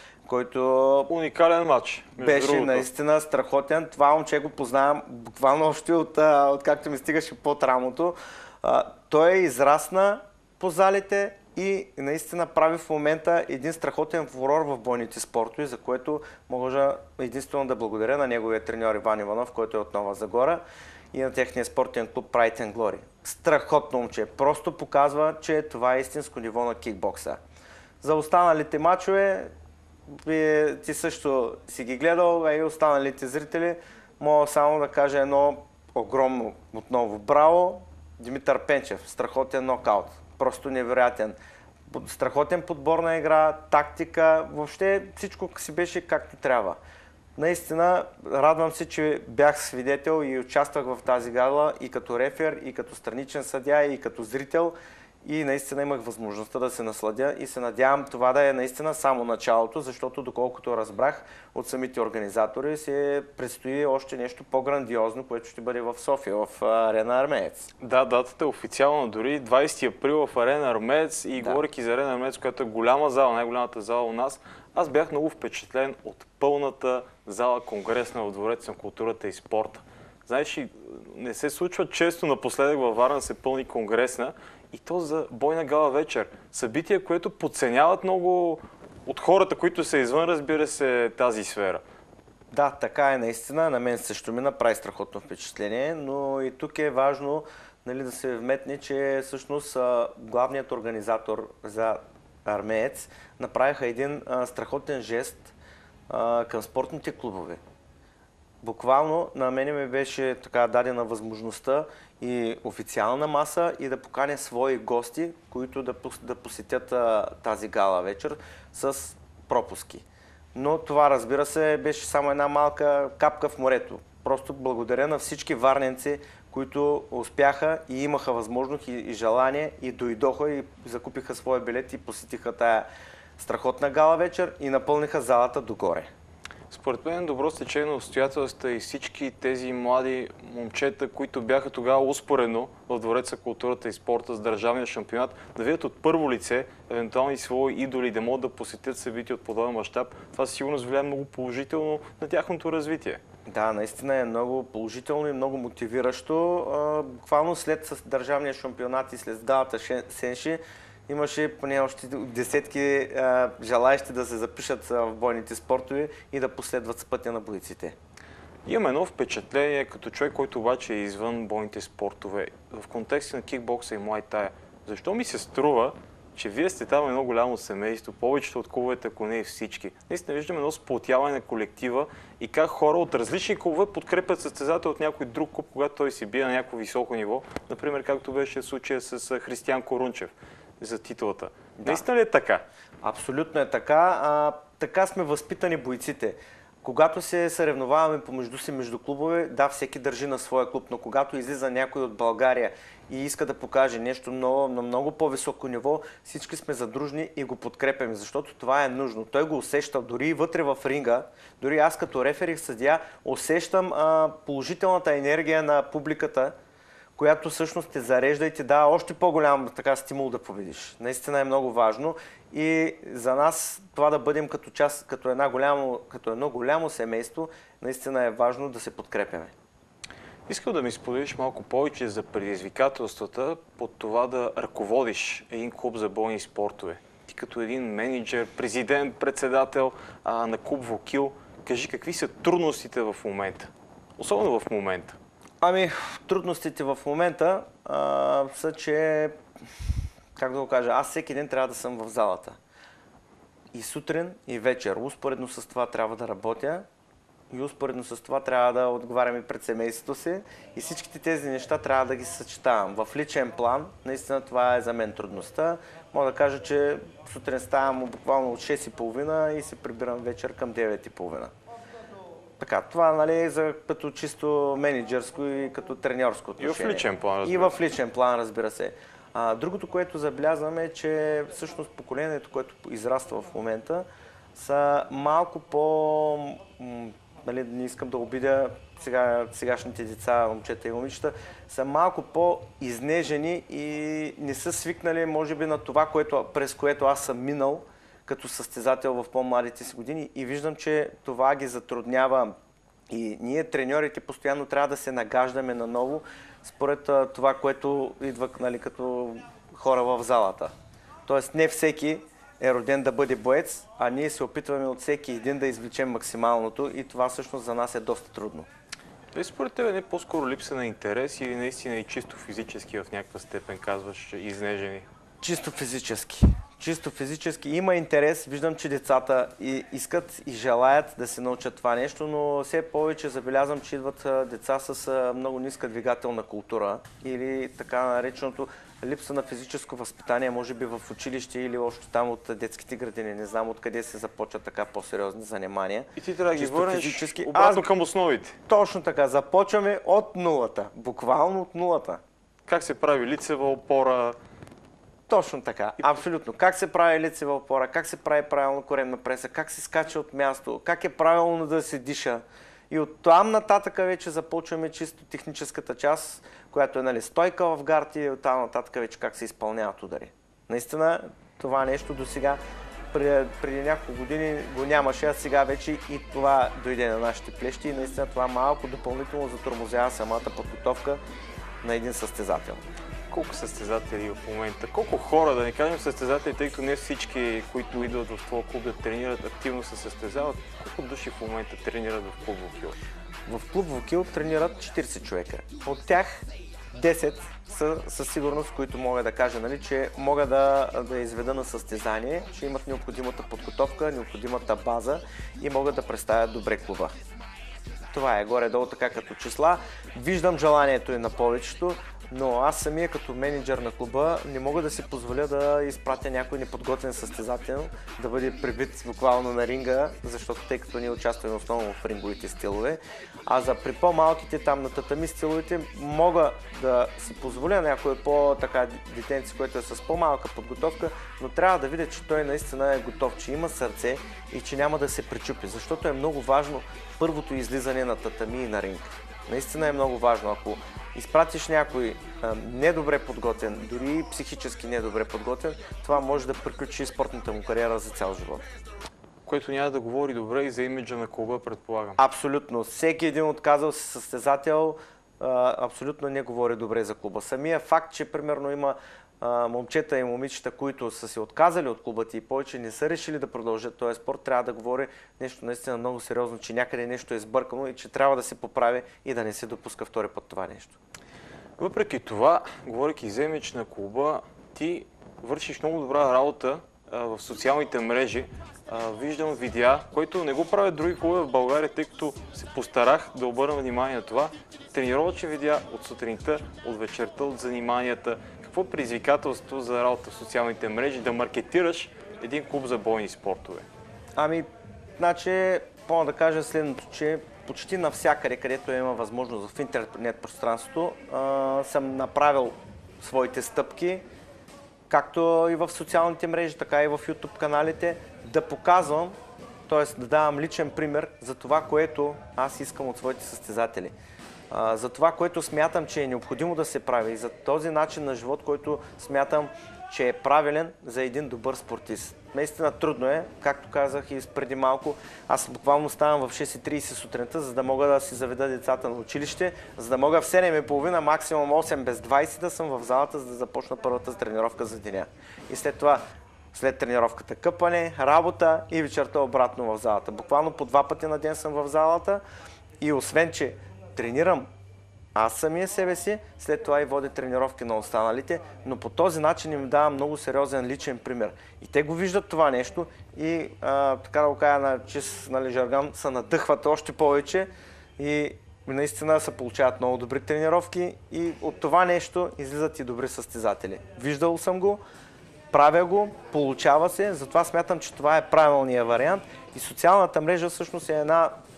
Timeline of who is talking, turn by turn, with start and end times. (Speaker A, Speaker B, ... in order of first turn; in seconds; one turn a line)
Speaker A: 0.2-1.1
Speaker B: 1.1-2.9
Speaker A: 2.2-20.6
Speaker A: 21.1-27.4
Speaker A: 28.0-29.5
Speaker A: 30.1-46.8
Speaker A: 47.4-67.7
Speaker B: 67.8-91.8
Speaker A: 92.5-105.5
Speaker A: 106.1-107.6
Speaker A: 108.6-132.9
Speaker A: 133.4-136.1
Speaker B: 136.7-153.2
Speaker A: 153.5-167.9
Speaker B: 168.6-192.6
Speaker A: 193.0-216.5
Speaker A: 217.2-229.5
Speaker B: 230.5-245.2
Speaker A: 245.6-249.3
Speaker A: 250.3-252.6
Speaker A: 253.7-256.8
Speaker A: 257.5-271.5
Speaker A: 272.6-302.5
Speaker B: 276.6-277.8
Speaker A: 303.1-310.7
Speaker A: 311.2-318.7
Speaker B: 319.3-325.1
Speaker A: 325.4-347.9
Speaker B: 346.2-348.6
Speaker A: 348.7-352.2
Speaker B: 352.7-354.4
Speaker A: 355.3-372.6
Speaker A: 373.1-381.2
Speaker A: 381.8-382.8
Speaker B: 383.3-392.9
Speaker A: 393.5-407.1
Speaker A: 408.1-448.6
Speaker B: 449.4-452.2
Speaker A: 452.2-471.0
Speaker B: 471.8-493.8
Speaker A: 494.4-494.7
Speaker A: 495.2-504.2
Speaker A: 505.1-514.1
Speaker A: 514.7-536.2
Speaker A: 536.7-542.4
Speaker A: 543.0-544.6
Speaker A: 545.3-565.0
Speaker A: 565.7-571.5